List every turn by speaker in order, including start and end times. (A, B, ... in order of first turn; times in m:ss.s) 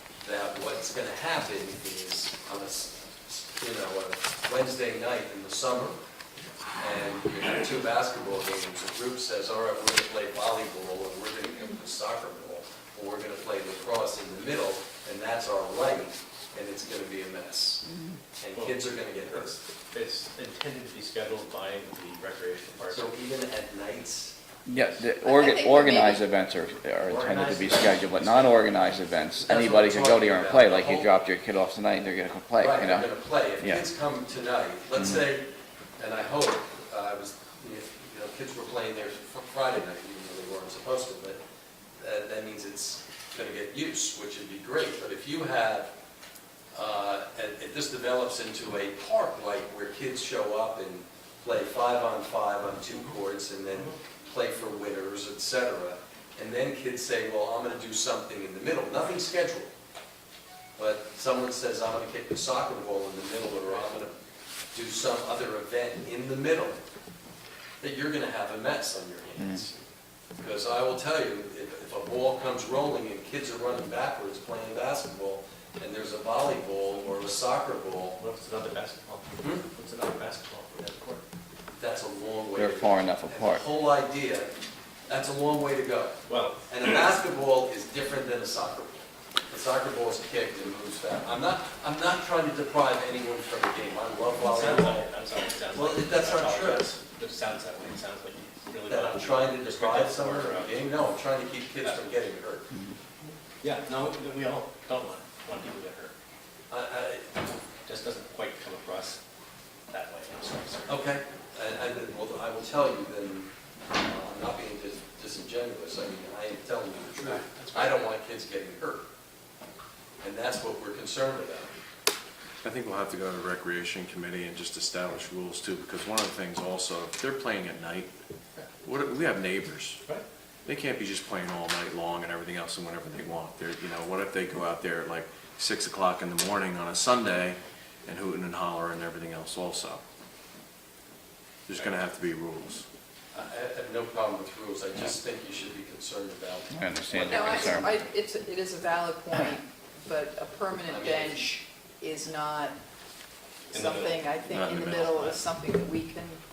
0:00.2-0:06.0 A
0:06.8-0:17.8 A
0:17.8-0:18.2 B
0:18.4-0:19.6 A
0:18.5-0:23.1 C
0:22.8-0:24.4 A
0:24.7-0:33.9 D
0:25.2-0:26.3 B
0:27.0-0:28.9 C
0:29.4-0:31.1 A
0:32.6-0:35.5 A
0:36.0-0:41.4 A
0:42.0-0:45.9 A
0:46.7-0:59.7 A
0:53.7-0:54.0 C
1:00.8-1:04.1 A
1:04.7-1:06.8 A
1:07.8-1:09.8 A
1:10.4-1:18.2 A
1:18.2-1:21.2 C
1:19.4-1:19.6 A
1:21.8-1:24.5 A
1:22.6-1:23.6 D
1:25.1-1:35.1 A
1:26.3-1:26.6 C
1:34.4-1:41.0 C
1:35.7-1:36.9 A
1:38.9-1:42.7 A
1:41.8-1:42.1 C
1:43.6-1:46.1 C
1:46.7-1:47.4 A
1:47.8-1:49.2 C
1:49.9-1:51.0 C
1:50.9-1:59.0 A
1:57.2-1:58.1 C
2:00.2-2:01.8 A
2:02.6-2:08.1 E
2:08.8-2:10.0 E
2:10.7-2:20.0 E
2:21.7-2:22.8 E
2:23.3-2:27.9 A
2:26.7-2:27.9 D
2:27.2-2:32.8 B
2:30.9-2:31.5 A
2:33.7-2:36.4 B
2:33.7-2:34.4 C
2:34.5-2:35.3 E